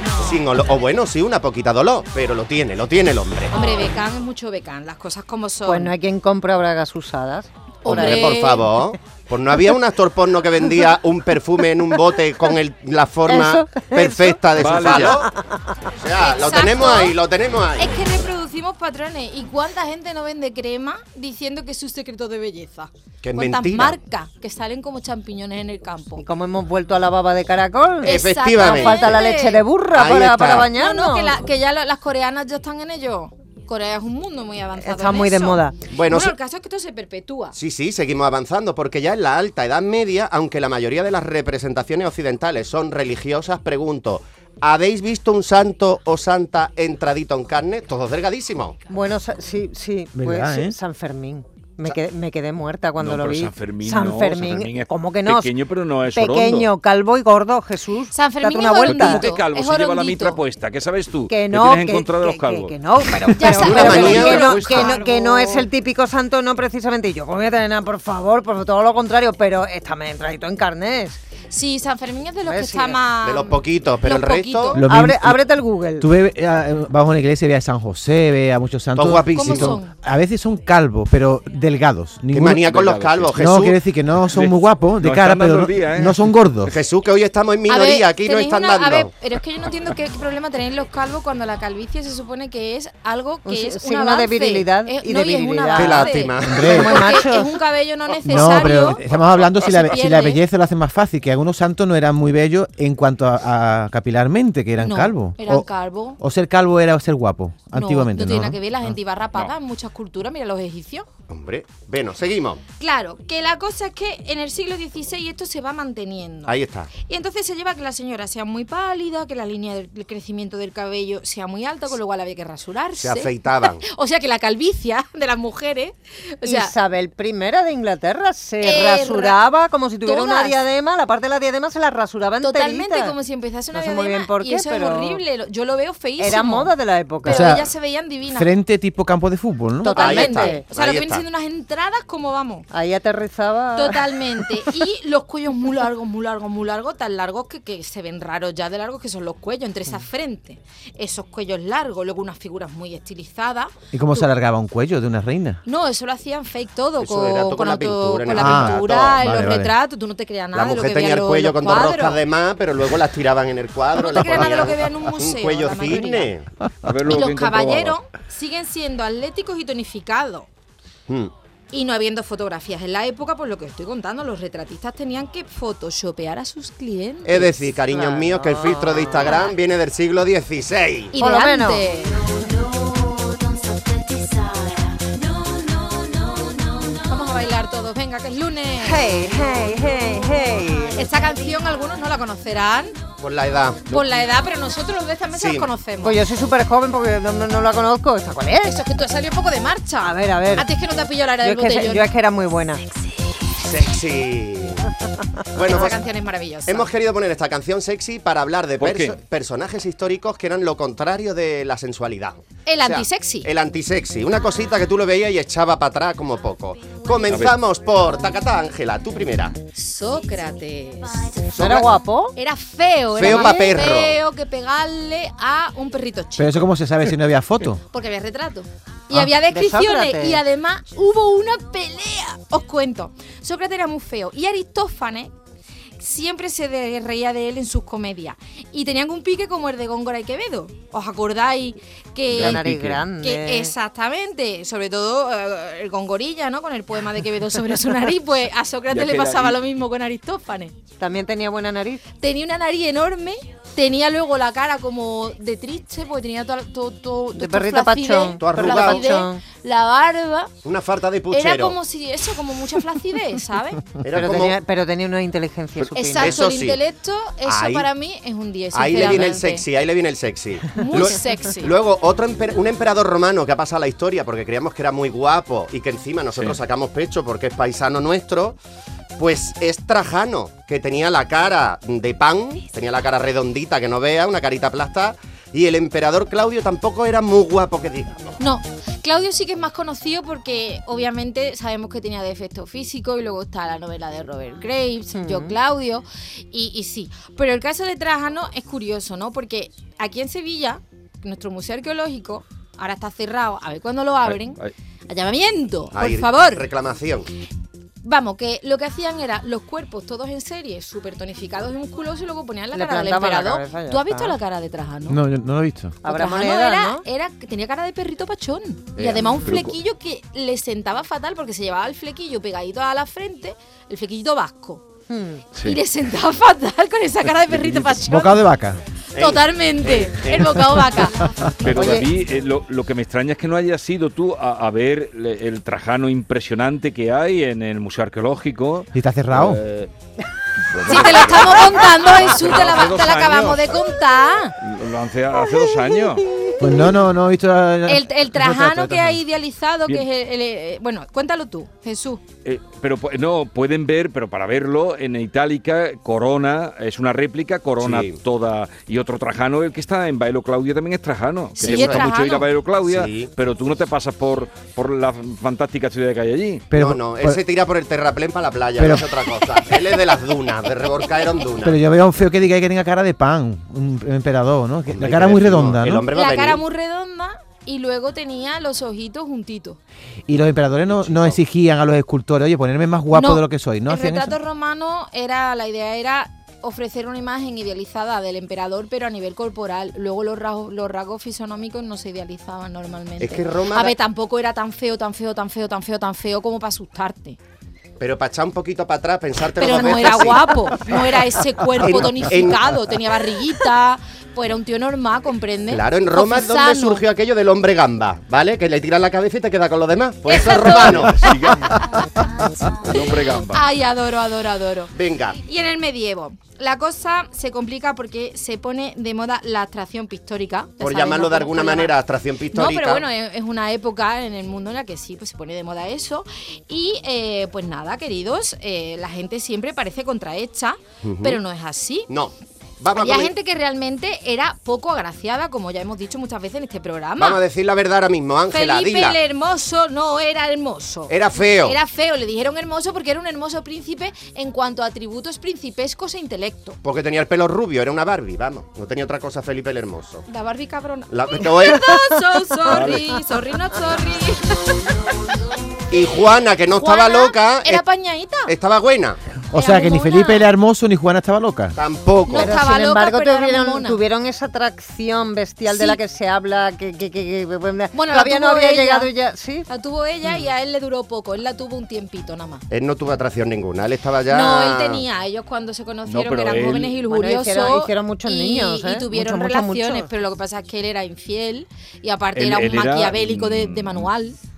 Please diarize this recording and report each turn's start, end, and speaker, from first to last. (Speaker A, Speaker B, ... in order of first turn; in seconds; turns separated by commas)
Speaker A: 0.2-3.5, Speaker B: 3.5-5.9, Speaker C: 5.7-8.5, Speaker B: 7.8-8.7, Speaker A: 7.8-15.3, Speaker C: 13.2-15.7, Speaker D: 14.5-15.2, Speaker A: 16.0-18.0, Speaker B: 16.2-17.2, Speaker B: 17.8-26.2, Speaker A: 23.2-23.9, Speaker C: 26.2-31.4, Speaker A: 28.0-29.3, Speaker B: 28.0-29.6, Speaker A: 29.9-30.7, Speaker B: 30.7-37.5, Speaker C: 34.8-35.8, Speaker A: 35.9-36.3, Speaker A: 37.5-48.8, Speaker C: 48.9-55.5, Speaker E: 50.1-50.8, Speaker D: 53.0-56.7, Speaker C: 56.1-59.3, Speaker B: 58.1-60.4, Speaker D: 58.8-65.0, Speaker C: 61.3-71.2, Speaker B: 63.4-65.7, Speaker A: 63.6-64.6, Speaker B: 71.5-74.8, Speaker C: 72.4-73.1, Speaker A: 73.2-74.8, Speaker E: 74.8-75.5, Speaker C: 74.8-76.1, Speaker E: 76.0-82.7, Speaker A: 79.0-79.8, Speaker B: 79.3-79.9, Speaker A: 82.3-83.8, Speaker D: 82.6-83.3, Speaker E: 83.3-86.7, Speaker D: 84.3-86.2, Speaker A: 86.7-89.1, Speaker B: 87.7-100.4, Speaker C: 93.4-97.6, Speaker A: 95.8-97.2, Speaker E: 96.4-97.0, Speaker E: 98.2-105.7, Speaker B: 104.8-106.2, Speaker E: 106.2-108.9, Speaker B: 107.7-111.1, Speaker A: 111.3-112.6, Speaker B: 112.8-126.7, Speaker A: 116.5-116.9, Speaker A: 123.0-123.8, Speaker C: 126.4-133.1, Speaker B: 128.6-129.4, Speaker B: 130.0-130.6, Speaker B: 132.4-138.5, Speaker C: 133.7-135.2, Speaker C: 136.2-137.6, Speaker E: 137.2-137.7, Speaker E: 138.3-140.0, Speaker C: 139.8-140.6, Speaker B: 139.8-142.7, Speaker A: 139.9-141.2, Speaker C: 142.7-144.7, Speaker B: 143.7-154.2, Speaker E: 153.9-155.6, Speaker B: 155.7-162.2, Speaker A: 157.0-159.2, Speaker E: 158.4-159.7, Speaker A: 160.5-166.5, Speaker B: 163.9-166.3, Speaker D: 166.8-167.9, Speaker B: 167.1-170.5, Speaker B: 171.7-177.5, Speaker A: 177.2-181.1, Speaker C: 177.9-179.5, Speaker B: 179.2-179.5, Speaker B: 181.1-182.2, Speaker C: 181.2-181.8, Speaker B: 187.0-189.1, Speaker C: 188.8-191.1, Speaker B: 190.9-193.0, Speaker A: 193.2-193.8, Speaker B: 193.9-196.2, Speaker A: 195.3-195.7, Speaker C: 196.0-198.8, Speaker B: 198.6-202.1, Speaker C: 200.0-200.7, Speaker C: 201.4-202.8, Speaker A: 203.6-204.9, Speaker A: 205.5-206.0, Speaker B: 205.7-206.9, Speaker A: 206.7-219.6, Speaker D: 208.8-209.2, Speaker B: 212.7-213.5, Speaker D: 217.3-217.6, Speaker B: 219.7-221.5, Speaker A: 221.5-221.9, Speaker C: 221.6-222.3, Speaker B: 222.3-226.6, Speaker A: 223.1-224.2, Speaker E: 226.4-227.8, Speaker B: 227.9-235.3, Speaker C: 229.4-230.4, Speaker B: 236.0-242.7, Speaker D: 242.3-243.0, Speaker C: 242.3-243.7, Speaker B: 243.2-250.7, Speaker D: 248.9-249.6, Speaker C: 251.0-252.0, Speaker B: 252.2-260.5, Speaker C: 257.3-259.4, Speaker A: 258.4-259.2, Speaker A: 260.6-261.8, Speaker B: 261.3-263.9, Speaker A: 264.0-264.6, Speaker C: 264.1-266.4, Speaker B: 265.9-269.6, Speaker A: 266.1-266.8, Speaker A: 267.4-267.9, Speaker A: 268.7-278.6, Speaker B: 270.8-271.7, Speaker D: 276.3-276.6, Speaker A: 279.2-288.4, Speaker B: 288.4-306.6, Speaker C: 295.1-295.6, Speaker D: 304.2-304.7, Speaker A: 305.9-307.3, Speaker B: 308.0-315.2, Speaker C: 312.7-314.4, Speaker E: 315.1-316.0, Speaker C: 316.0-317.0, Speaker B: 316.0-324.8, Speaker A: 318.9-319.6, Speaker C: 325.1-325.4, Speaker B: 325.6-328.4, Speaker D: 327.3-328.0, Speaker E: 328.1-328.8, Speaker A: 329.1-330.8, Speaker B: 329.1-332.0, Speaker D: 331.6-339.9, Speaker E: 338.9-339.6, Speaker D: 340.6-343.8, Speaker B: 340.9-344.5, Speaker D: 344.6-346.2, Speaker E: 346.6-349.2, Speaker B: 347.9-352.2, Speaker D: 352.4-366.7, Speaker A: 357.8-358.2, Speaker B: 361.6-362.5, Speaker A: 361.6-362.1, Speaker A: 362.8-363.3, Speaker E: 366.7-367.4, Speaker A: 366.7-371.8, Speaker E: 368.8-369.1, Speaker E: 371.6-376.1, Speaker A: 374.9-376.6, Speaker B: 376.1-379.8, Speaker E: 380.3-384.4, Speaker A: 380.9-381.4, Speaker B: 383.1-397.4, Speaker A: 393.2-393.9, Speaker A: 398.0-401.1, Speaker B: 399.6-407.0, Speaker A: 401.7-402.8, Speaker A: 405.7-411.3, Speaker B: 410.3-412.1, Speaker D: 410.9-411.9, Speaker D: 412.8-413.6, Speaker B: 413.5-421.9, Speaker A: 414.9-415.4, Speaker A: 420.8-423.0, Speaker B: 422.5-432.1, Speaker A: 431.0-431.4, Speaker A: 432.1-433.3, Speaker B: 433.0-437.4, Speaker A: 437.2-439.2, Speaker B: 438.5-446.8, Speaker A: 441.1-441.8, Speaker A: 446.8-450.2, Speaker B: 450.3-454.9, Speaker A: 451.1-452.1, Speaker D: 452.7-453.2, Speaker A: 455.9-457.8, Speaker B: 456.8-458.5, Speaker A: 458.5-459.2, Speaker E: 459.5-461.8, Speaker B: 459.5-460.5, Speaker A: 461.8-462.6, Speaker B: 462.3-464.0, Speaker C: 462.3-469.7, Speaker B: 465.7-466.0, Speaker B: 467.9-469.1, Speaker B: 469.7-472.6, Speaker A: 472.7-475.0, Speaker B: 474.3-484.4, Speaker D: 476.0-476.9, Speaker C: 477.0-480.1, Speaker D: 482.3-484.1